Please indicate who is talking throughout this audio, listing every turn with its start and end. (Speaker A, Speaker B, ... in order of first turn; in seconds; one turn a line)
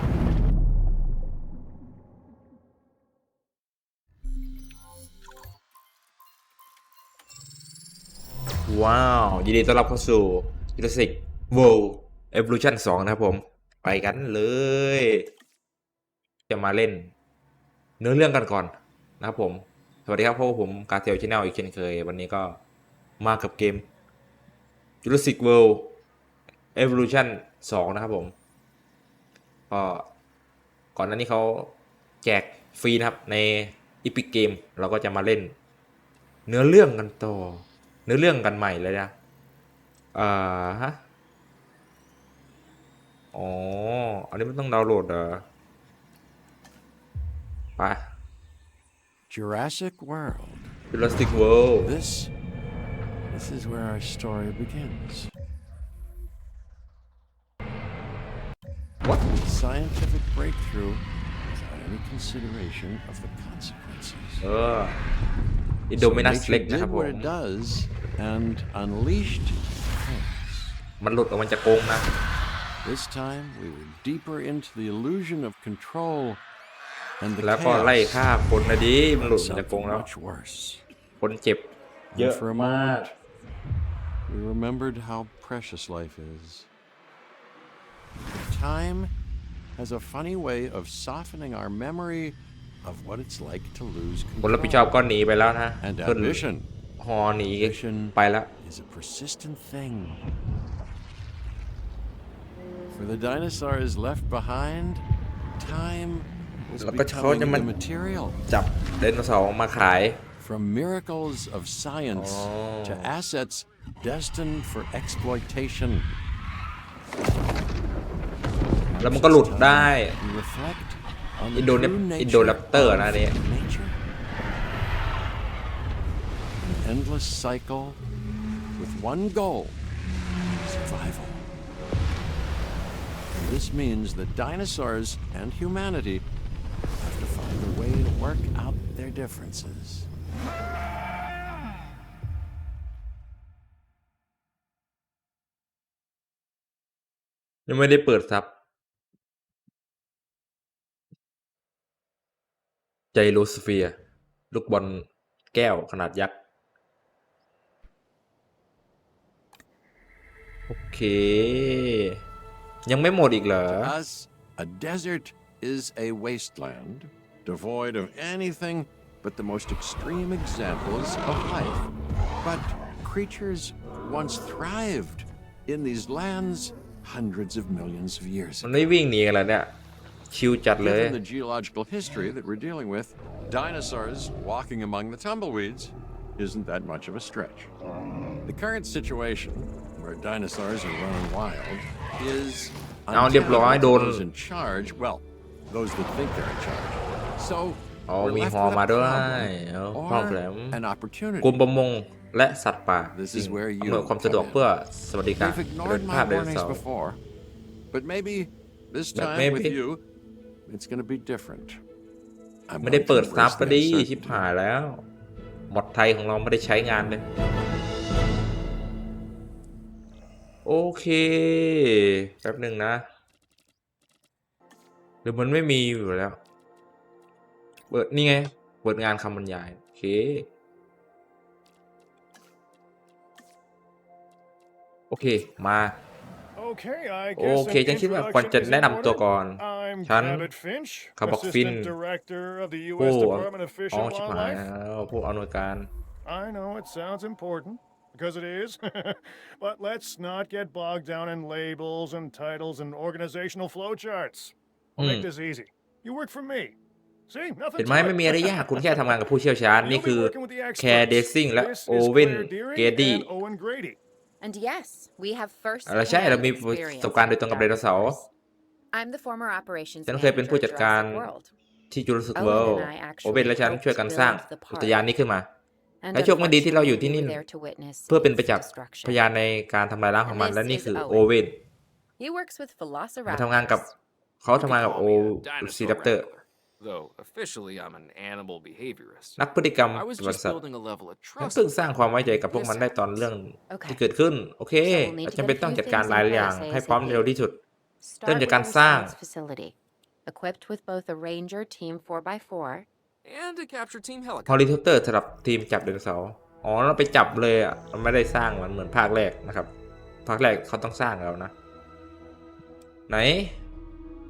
Speaker A: 8.7-15.3
Speaker A: 16.5-17.1
Speaker A: 18.0-22.6
Speaker A: 23.2-23.9
Speaker A: 25.0-25.9
Speaker A: 26.7-28.3
Speaker A: 29.7-30.1
Speaker A: 30.9-35.5
Speaker A: 36.5-39.1
Speaker A: 40.1-41.0
Speaker A: 43.3-45.4
Speaker A: 47.8-48.0
Speaker B: 49.3-50.7
Speaker A: 50.9-51.9
Speaker B: 51.8-52.3
Speaker B: 53.3-55.3
Speaker B: 59.2-64.5
Speaker A: 64.4-65.0
Speaker A: 65.9-67.3
Speaker B: 65.9-70.8
Speaker A: 71.0-72.1
Speaker B: 72.8-76.4
Speaker B: 77.2-78.3
Speaker A: 77.4-80.0
Speaker B: 79.2-80.8
Speaker A: 81.2-83.1
Speaker B: 82.1-83.2
Speaker B: 84.3-86.7
Speaker B: 88.3-89.1
Speaker B: 89.8-94.9
Speaker A: 94.4-96.5
Speaker B: 95.8-96.7
Speaker A: 97.0-98.5
Speaker B: 97.6-100.3
Speaker B: 102.9-105.0
Speaker B: 105.6-108.4
Speaker A: 106.8-107.7
Speaker A: 108.5-110.2
Speaker B: 110.4-116.1
Speaker A: 112.1-113.1
Speaker B: 118.9-124.0
Speaker A: 119.0-120.1
Speaker A: 121.5-123.3
Speaker B: 126.6-128.0
Speaker B: 128.8-129.8
Speaker B: 130.4-131.4
Speaker B: 133.3-136.2
Speaker B: 137.0-140.1
Speaker A: 147.7-148.5
Speaker A: 153.1-153.9
Speaker A: 154.5-156.3
Speaker A: 160.7-162.2
Speaker A: 162.8-163.9
Speaker B: 163.7-178.9
Speaker A: 178.6-179.7
Speaker A: 180.3-181.2
Speaker B: 180.8-187.7
Speaker B: 188.4-201.6
Speaker A: 193.1-194.2
Speaker A: 198.1-200.8
Speaker A: 201.4-206.8
Speaker B: 203.1-204.6
Speaker B: 205.4-207.2
Speaker B: 207.9-210.0
Speaker A: 209.1-209.8
Speaker B: 210.7-211.8
Speaker B: 212.7-214.5
Speaker A: 212.8-215.1
Speaker A: 215.7-217.2
Speaker A: 220.6-223.0
Speaker A: 225.2-226.4
Speaker A: 227.9-230.5
Speaker A: 235.1-236.0
Speaker C: 236.6-244.7
Speaker A: 237.3-240.5
Speaker A: 241.2-241.9
Speaker A: 243.0-245.9
Speaker C: 246.2-256.8
Speaker A: 255.0-255.3
Speaker C: 257.3-259.0
Speaker A: 257.8-263.3
Speaker C: 259.8-264.0
Speaker D: 264.4-268.3
Speaker A: 265.9-268.2
Speaker D: 268.9-271.5
Speaker A: 270.1-271.3
Speaker A: 271.9-275.5
Speaker D: 272.3-275.0
Speaker D: 276.0-279.2
Speaker A: 276.1-277.4
Speaker A: 278.1-281.6
Speaker D: 280.2-281.3
Speaker D: 282.2-283.9
Speaker A: 283.2-283.9
Speaker A: 284.4-286.3
Speaker E: 284.5-289.4
Speaker A: 289.4-290.6
Speaker E: 289.9-291.7
Speaker A: 291.4-297.6
Speaker E: 292.2-293.3
Speaker D: 293.7-294.0
Speaker D: 294.8-297.3
Speaker D: 298.0-299.7
Speaker A: 298.2-299.1
Speaker D: 300.2-302.9
Speaker E: 303.2-304.7
Speaker A: 304.5-309.7
Speaker A: 310.2-311.5
Speaker A: 313.1-313.6